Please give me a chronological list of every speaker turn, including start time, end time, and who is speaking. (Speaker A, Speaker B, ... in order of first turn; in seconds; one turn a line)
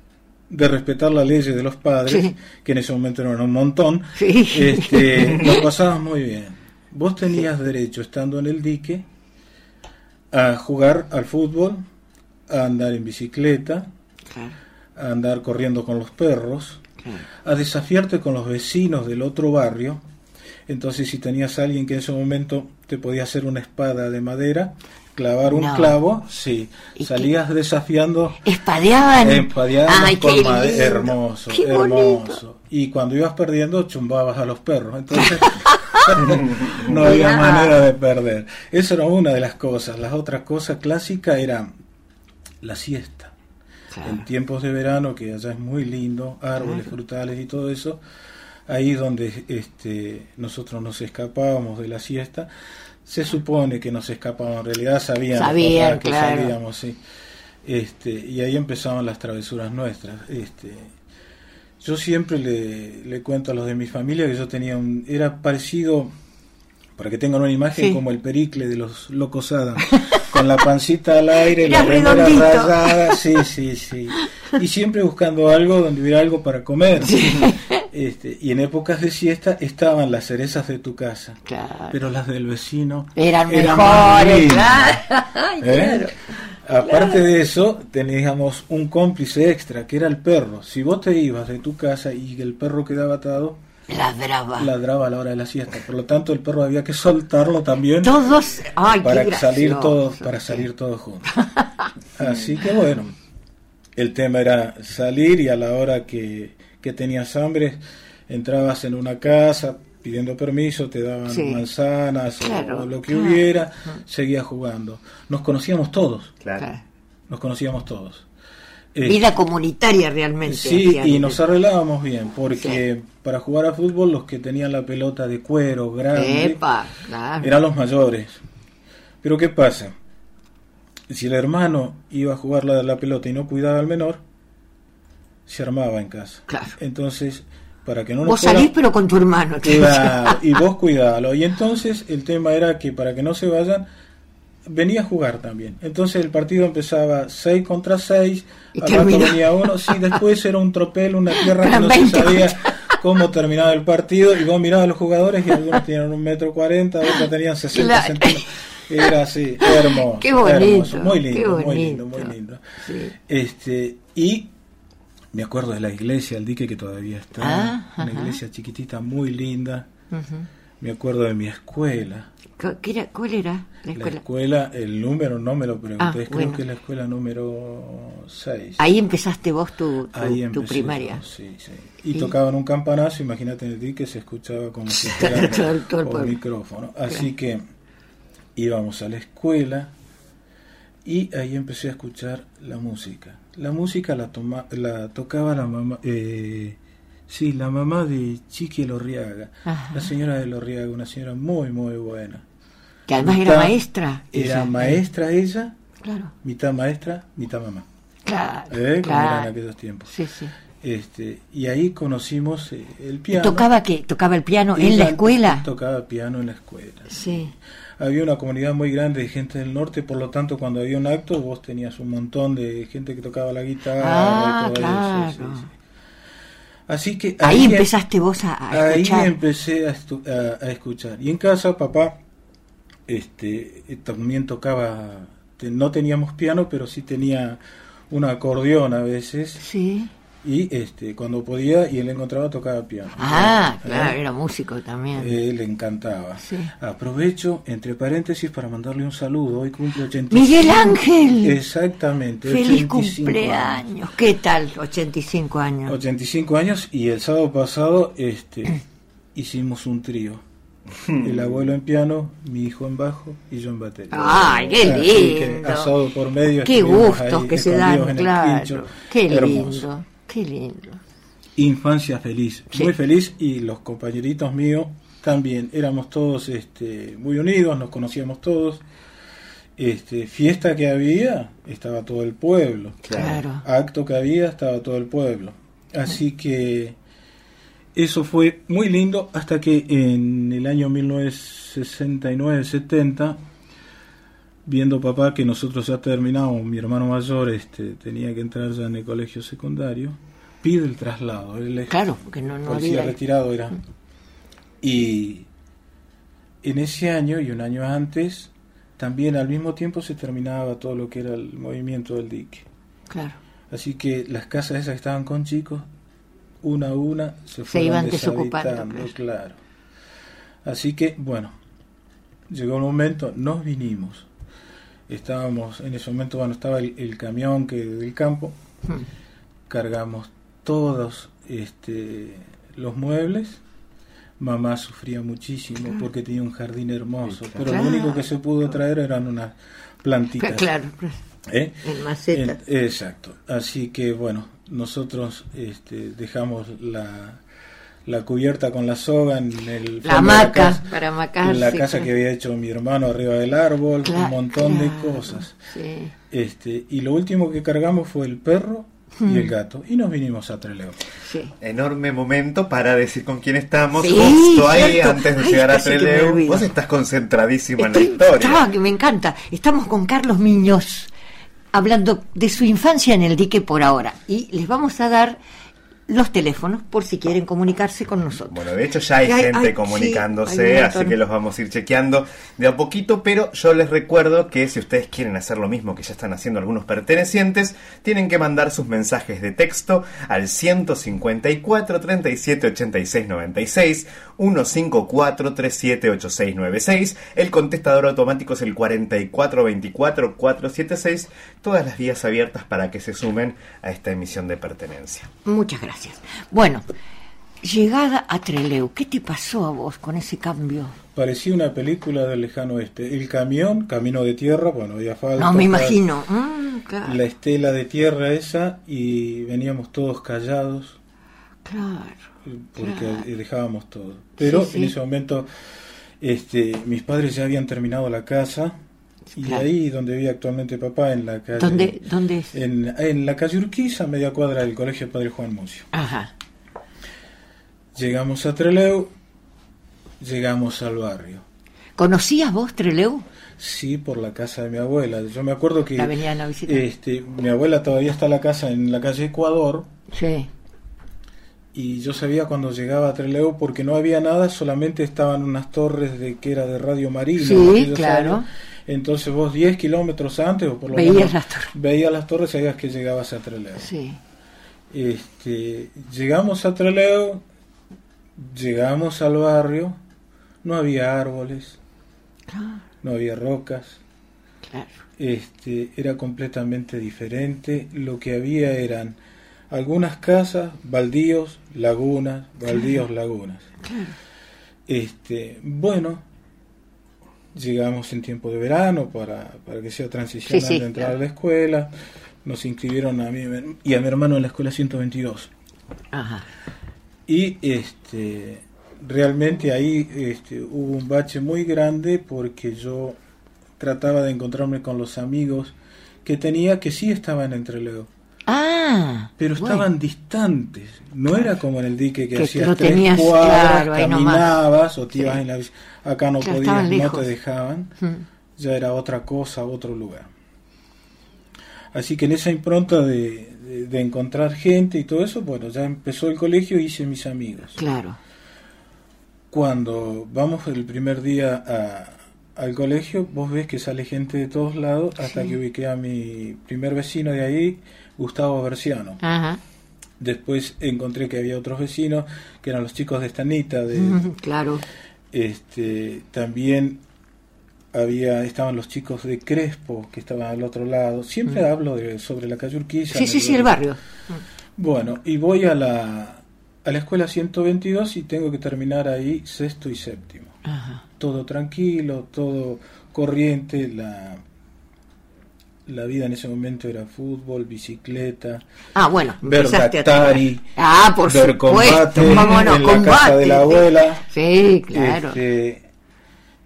Speaker A: 0.5-9.1
Speaker B: 2.1-2.3
Speaker B: 4.2-5.6
Speaker A: 10.3-11.8
Speaker A: 12.5-13.9
Speaker B: 14.3-14.6
Speaker A: 14.9-16.8
Speaker A: 17.4-20.0
Speaker A: 20.7-28.4
Speaker B: 25.4-26.0
Speaker B: 27.0-27.3
Speaker B: 28.4-32.4
Speaker A: 29.2-41.7
Speaker B: 35.2-37.8
Speaker A: 42.6-43.3
Speaker B: 43.9-44.2
Speaker A: 44.0-48.0
Speaker B: 46.6-46.9
Speaker A: 48.7-52.5
Speaker A: 53.0-57.0
Speaker B: 55.3-56.5
Speaker A: 57.6-60.9
Speaker A: 61.8-66.1
Speaker A: 67.0-85.0
Speaker B: 71.4-73.2
Speaker B: 77.0-77.8
Speaker B: 81.5-82.0
Speaker B: 83.2-87.2
Speaker A: 85.6-86.1
Speaker A: 86.6-93.6
Speaker B: 93.9-94.7
Speaker A: 94.6-98.2
Speaker B: 98.0-100.6
Speaker A: 98.9-101.4
Speaker A: 102.2-103.2
Speaker A: 104.0-116.3
Speaker B: 111.3-111.6
Speaker B: 112.4-113.4
Speaker A: 117.3-118.3
Speaker A: 118.9-119.2
Speaker B: 119.0-121.4
Speaker A: 120.4-126.6
Speaker B: 126.1-127.5
Speaker A: 127.4-128.4
Speaker A: 129.2-129.9
Speaker A: 131.1-134.2
Speaker A: 135.4-138.7
Speaker B: 136.5-136.8
Speaker B: 138.2-140.4
Speaker A: 139.6-143.9
Speaker A: 144.7-162.6
Speaker B: 148.7-150.1
Speaker B: 151.4-153.0
Speaker B: 157.7-158.4
Speaker B: 159.6-163.1
Speaker A: 163.2-164.5
Speaker A: 165.3-169.9
Speaker B: 167.4-168.4
Speaker B: 170.1-170.4
Speaker A: 170.8-172.3
Speaker B: 172.6-174.2
Speaker A: 173.9-178.8
Speaker B: 176.0-176.6
Speaker B: 178.8-181.2
Speaker A: 180.1-187.6
Speaker B: 184.9-186.3
Speaker A: 188.6-189.9
Speaker A: 191.0-202.4
Speaker B: 199.7-200.1
Speaker B: 203.1-205.0
Speaker A: 203.2-203.8
Speaker A: 204.3-205.8
Speaker B: 206.0-206.3
Speaker A: 206.4-207.8
Speaker B: 208.2-209.5
Speaker A: 208.7-210.1
Speaker B: 210.1-210.5
Speaker A: 210.8-213.7
Speaker B: 213.3-215.6
Speaker A: 214.7-217.3
Speaker B: 217.1-217.5
Speaker A: 218.0-225.7
Speaker B: 224.0-225.7
Speaker A: 226.9-227.9
Speaker B: 227.4-229.3
Speaker A: 228.7-232.2
Speaker A: 233.1-239.6
Speaker B: 239.6-240.1
Speaker A: 240.4-244.2
Speaker B: 243.2-245.4
Speaker A: 245.2-253.9
Speaker B: 246.4-246.7
Speaker B: 250.3-251.6
Speaker B: 252.4-256.0
Speaker A: 255.8-258.8
Speaker A: 259.3-260.4
Speaker A: 261.2-269.9
Speaker B: 264.1-265.9
Speaker B: 266.6-271.0
Speaker A: 271.6-278.8
Speaker A: 279.8-286.9
Speaker C: 283.1-283.4
Speaker B: 283.1-283.6
Speaker A: 287.9-293.4
Speaker A: 294.6-302.0
Speaker B: 301.9-303.2
Speaker A: 302.6-303.8
Speaker A: 304.8-305.5
Speaker A: 306.6-312.6
Speaker B: 313.1-313.4
Speaker A: 313.7-315.9
Speaker A: 316.6-319.6
Speaker B: 317.7-319.1
Speaker A: 320.6-321.5
Speaker A: 322.5-324.3
Speaker A: 325.1-328.6
Speaker A: 329.7-333.6
Speaker A: 334.4-340.7
Speaker B: 337.6-338.2
Speaker B: 340.4-341.1
Speaker A: 341.5-347.4
Speaker B: 341.8-342.6
Speaker A: 348.0-355.6
Speaker B: 350.0-352.1
Speaker B: 354.0-356.1
Speaker A: 356.3-361.0
Speaker B: 359.2-359.5
Speaker B: 361.2-361.5
Speaker C: 361.6-368.6
Speaker B: 364.0-366.7
Speaker B: 367.8-371.1
Speaker B: 371.7-375.4
Speaker B: 376.1-378.6
Speaker C: 378.5-405.3
Speaker B: 379.2-381.2
Speaker B: 405.4-406.8
Speaker B: 407.6-410.9
Speaker A: 411.1-416.0
Speaker B: 415.4-417.2
Speaker A: 417.0-421.0
Speaker B: 421.6-422.2
Speaker A: 422.5-425.5
Speaker B: 422.8-423.2
Speaker B: 424.4-424.9
Speaker A: 426.2-428.8
Speaker B: 429.3-429.6
Speaker A: 429.4-435.9
Speaker B: 431.6-432.5
Speaker B: 435.9-436.3
Speaker A: 437.9-439.1
Speaker A: 440.2-441.4
Speaker B: 442.0-443.2
Speaker A: 443.6-449.9
Speaker B: 445.9-446.8
Speaker B: 450.1-450.5
Speaker A: 451.7-463.9
Speaker B: 457.4-458.4
Speaker B: 460.9-461.7
Speaker B: 463.8-464.2
Speaker A: 464.9-467.4
Speaker A: 468.4-470.0
Speaker A: 470.6-471.8
Speaker B: 472.5-472.8
Speaker A: 473.0-474.0
Speaker B: 474.7-475.0
Speaker A: 475.2-479.2
Speaker A: 479.7-483.7
Speaker B: 483.8-484.1
Speaker A: 484.9-486.2
Speaker A: 487.5-491.9
Speaker B: 490.5-491.1
Speaker A: 492.4-495.5
Speaker B: 496.1-496.4
Speaker A: 497.3-503.2
Speaker A: 503.8-508.1
Speaker B: 508.5-509.9
Speaker A: 509.4-518.0
Speaker B: 512.3-514.5
Speaker B: 516.4-517.3
Speaker A: 518.6-520.3
Speaker A: 521.9-527.8
Speaker B: 527.8-528.2
Speaker A: 529.5-539.2
Speaker B: 535.2-535.5
Speaker B: 539.2-539.6
Speaker A: 540.2-544.3
Speaker B: 543.9-544.8
Speaker A: 545.3-547.0
Speaker A: 547.9-553.8
Speaker B: 553.1-554.4
Speaker A: 554.8-560.5
Speaker B: 560.6-561.0
Speaker A: 561.2-564.4
Speaker A: 565.9-568.6
Speaker B: 568.9-575.4
Speaker A: 569.4-570.7
Speaker A: 571.2-574.2
Speaker A: 574.9-575.8